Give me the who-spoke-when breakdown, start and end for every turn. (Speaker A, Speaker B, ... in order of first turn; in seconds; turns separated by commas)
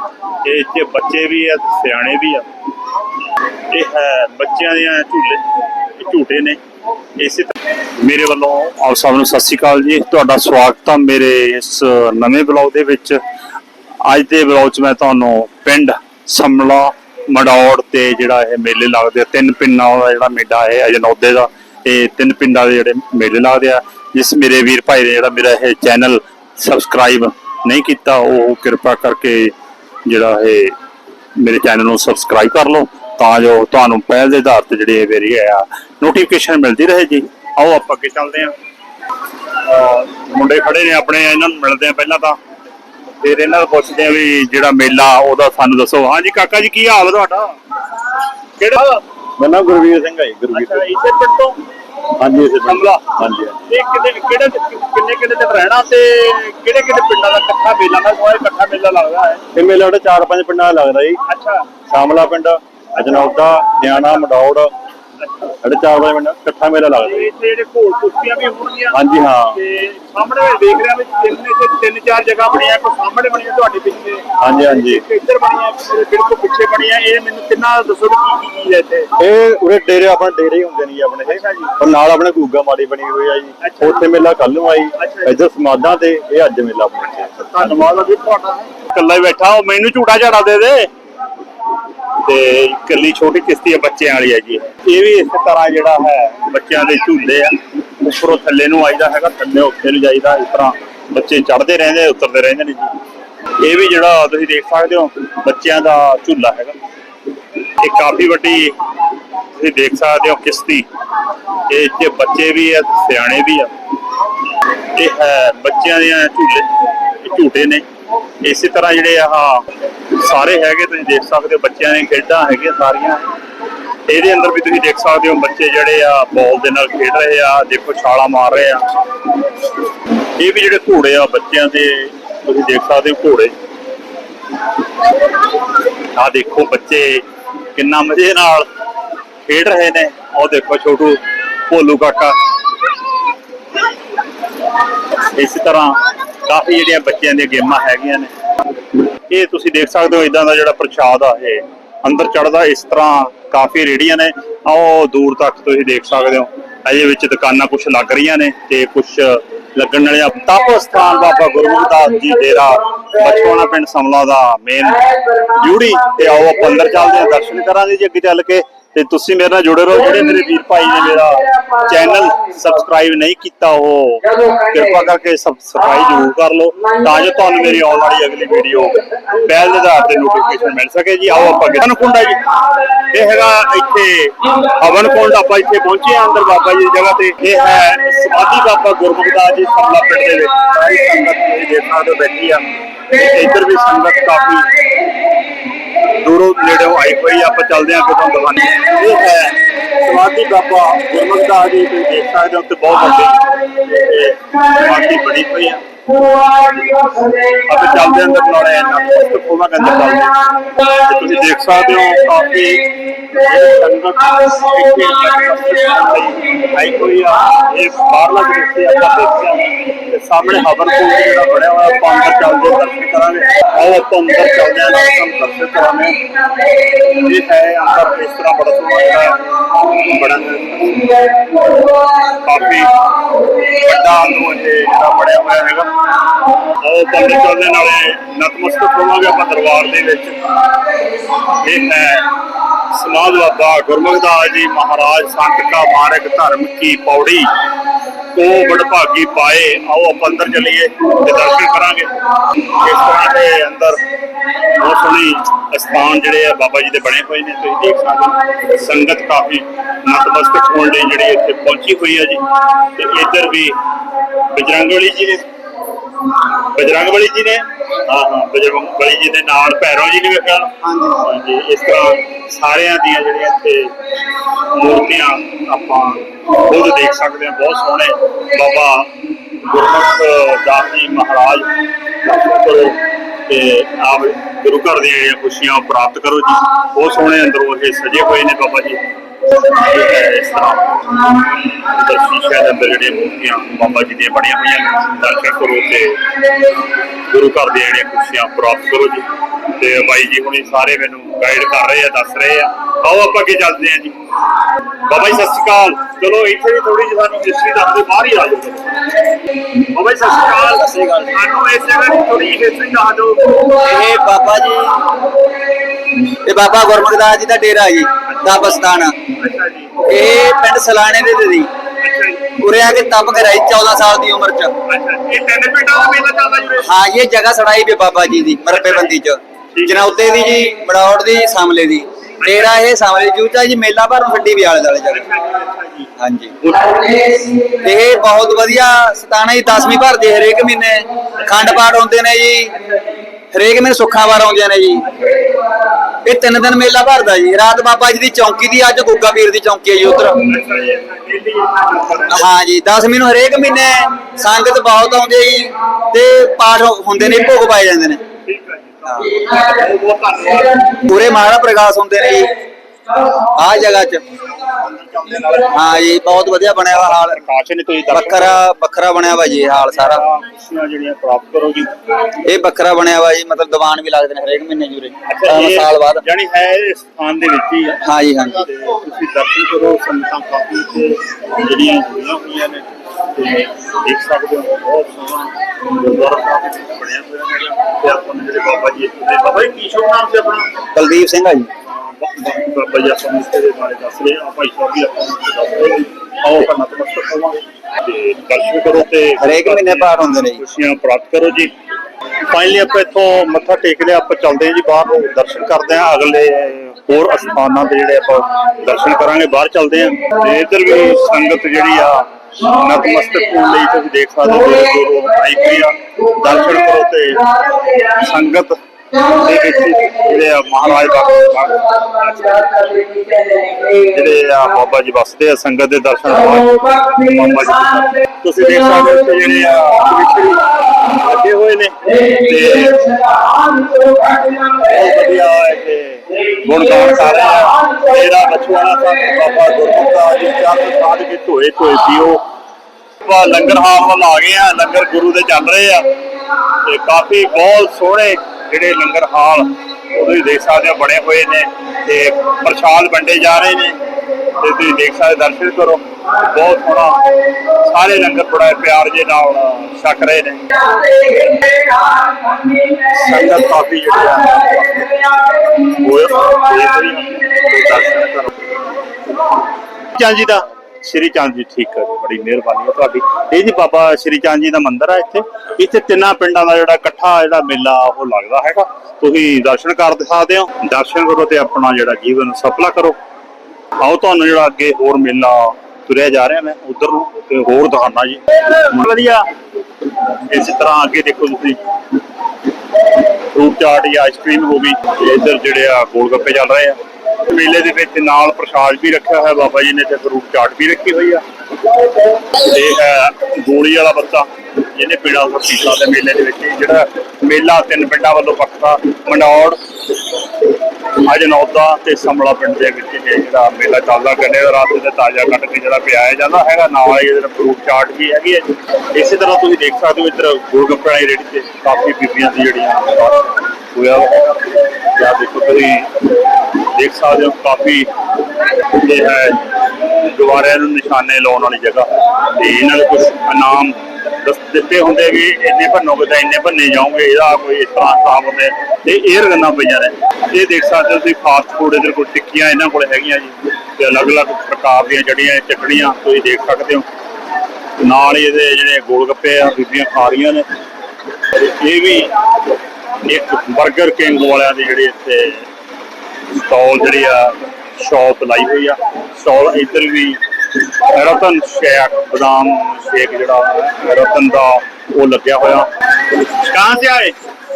Speaker A: 0.4-2.5, Speaker A: 3.7-5.4, Speaker A: 6.0-6.6, Speaker A: 7.2-13.2, Speaker A: 14.0-29.5, Speaker A: 30.0-30.7, Speaker A: 31.4-38.5, Speaker A: 39.6-42.4, Speaker A: 43.2-47.5, Speaker A: 48.6-49.0, Speaker B: 49.5-50.3, Speaker A: 50.5-51.6, Speaker A: 52.5-59.7, Speaker B: 60.0-60.5, Speaker A: 61.2-64.7, Speaker A: 65.2-79.1, Speaker A: 80.0-81.8, Speaker A: 83.6-90.9, Speaker A: 92.2-102.9, Speaker A: 103.6-106.7, Speaker A: 107.8-108.8, Speaker A: 109.5-110.8, Speaker A: 111.7-113.7, Speaker A: 114.9-117.8, Speaker A: 118.4-123.3, Speaker A: 124.1-128.8, Speaker A: 130.4-133.5, Speaker A: 136.1-137.2, Speaker A: 137.7-138.7, Speaker A: 139.4-142.4, Speaker A: 145.3-148.3, Speaker A: 149.3-194.7, Speaker A: 196.1-205.8, Speaker B: 206.7-207.2, Speaker A: 207.5-226.2, Speaker A: 226.9-231.2, Speaker A: 232.3-235.9, Speaker A: 236.8-240.4, Speaker A: 241.5-242.3, Speaker A: 242.9-247.5, Speaker A: 248.3-252.1, Speaker A: 252.7-254.0, Speaker A: 254.7-263.8, Speaker A: 264.5-265.4, Speaker A: 266.6-273.9, Speaker C: 270.9-271.1, Speaker A: 274.7-296.2, Speaker A: 297.3-304.1, Speaker A: 305.0-309.1, Speaker A: 309.8-313.7, Speaker C: 310.6-311.3, Speaker C: 313.7-315.1, Speaker C: 316.3-319.2, Speaker A: 318.3-318.7, Speaker A: 319.4-320.0, Speaker C: 320.0-321.7, Speaker A: 322.0-322.5, Speaker C: 322.5-324.7, Speaker A: 324.9-326.9, Speaker C: 326.8-335.2, Speaker A: 328.7-329.1, Speaker A: 329.7-330.0, Speaker A: 332.4-332.7, Speaker A: 335.1-337.4, Speaker C: 336.2-336.6, Speaker C: 337.6-342.7, Speaker A: 341.4-341.9, Speaker C: 343.5-345.0, Speaker A: 345.1-345.4, Speaker C: 346.2-350.4, Speaker A: 350.4-352.5, Speaker C: 352.3-358.2, Speaker A: 358.4-361.0, Speaker C: 361.0-362.5, Speaker C: 363.4-364.2, Speaker A: 364.6-366.1, Speaker C: 365.7-367.4, Speaker A: 366.8-368.6, Speaker C: 368.1-370.2, Speaker A: 369.9-371.9, Speaker C: 372.4-376.2, Speaker A: 375.3-390.7, Speaker C: 378.0-378.6, Speaker C: 390.9-391.7, Speaker A: 391.9-401.7, Speaker C: 399.4-400.6, Speaker A: 402.5-423.2, Speaker A: 423.8-433.1, Speaker B: 433.6-434.0, Speaker A: 434.6-442.4, Speaker A: 443.2-446.1, Speaker A: 446.8-454.0, Speaker A: 454.5-461.4, Speaker A: 462.9-468.7, Speaker A: 470.1-483.1, Speaker A: 484.0-489.5, Speaker A: 490.4-491.8, Speaker A: 493.5-501.4, Speaker A: 502.5-509.8, Speaker A: 511.2-526.1, Speaker A: 526.9-528.1, Speaker A: 528.9-547.0, Speaker A: 548.0-550.6, Speaker A: 551.5-552.3, Speaker A: 553.2-555.6, Speaker A: 556.5-560.4, Speaker A: 561.0-565.9, Speaker A: 566.4-567.3